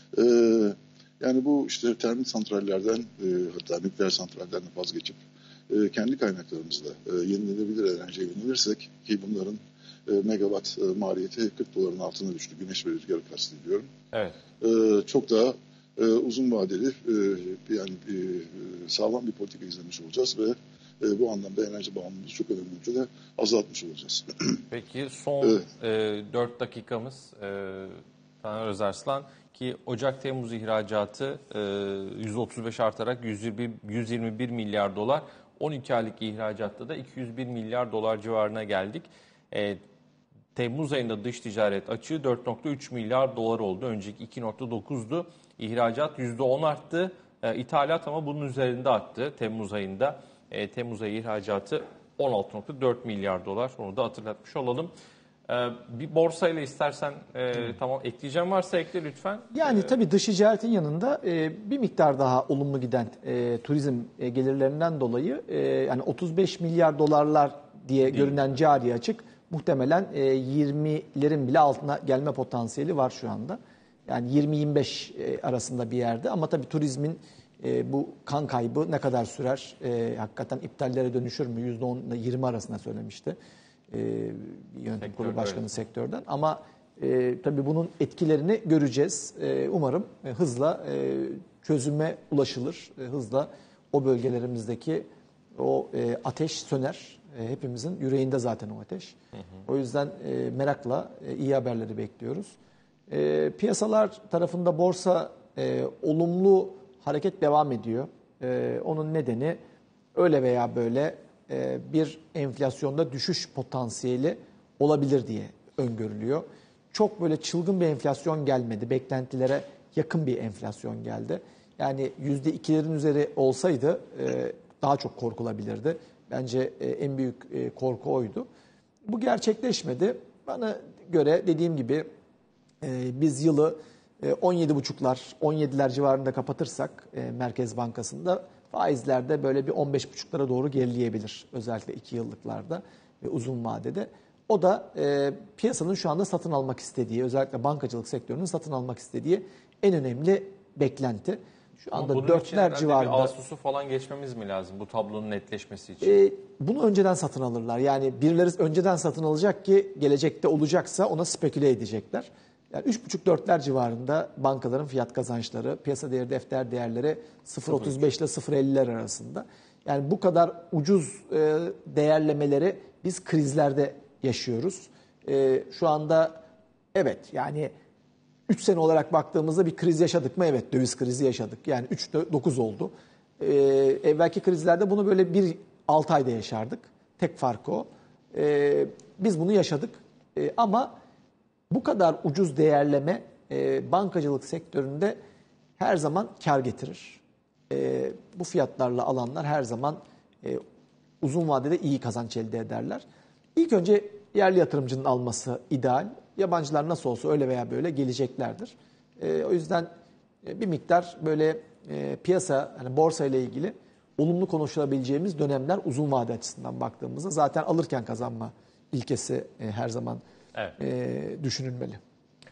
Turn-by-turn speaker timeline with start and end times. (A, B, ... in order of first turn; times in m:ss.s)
0:00.1-0:13.9 A
0:14.1-0:14.4 B
0:14.6-0:24.6 A
0:24.7-0:39.8 B
0:40.5-0:54.9 B
0:55.5-0:59.9 B
0:59.5-1:23.4 C
1:23.9-1:39.1 C
1:25.0-1:25.8 B
1:39.6-1:42.5 C
1:43.1-1:49.6 C
1:50.1-2:08.5 C
2:09.0-2:12.1 C
2:12.8-2:33.3 C
2:31.9-2:36.2 B
2:36.0-2:57.7 C
2:58.5-3:11.0 C
3:11.7-3:15.2 C
3:15.8-3:20.6 C
3:21.2-3:23.0 C
3:23.6-3:29.9 C
3:30.4-3:40.2 C
3:40.8-3:42.0 C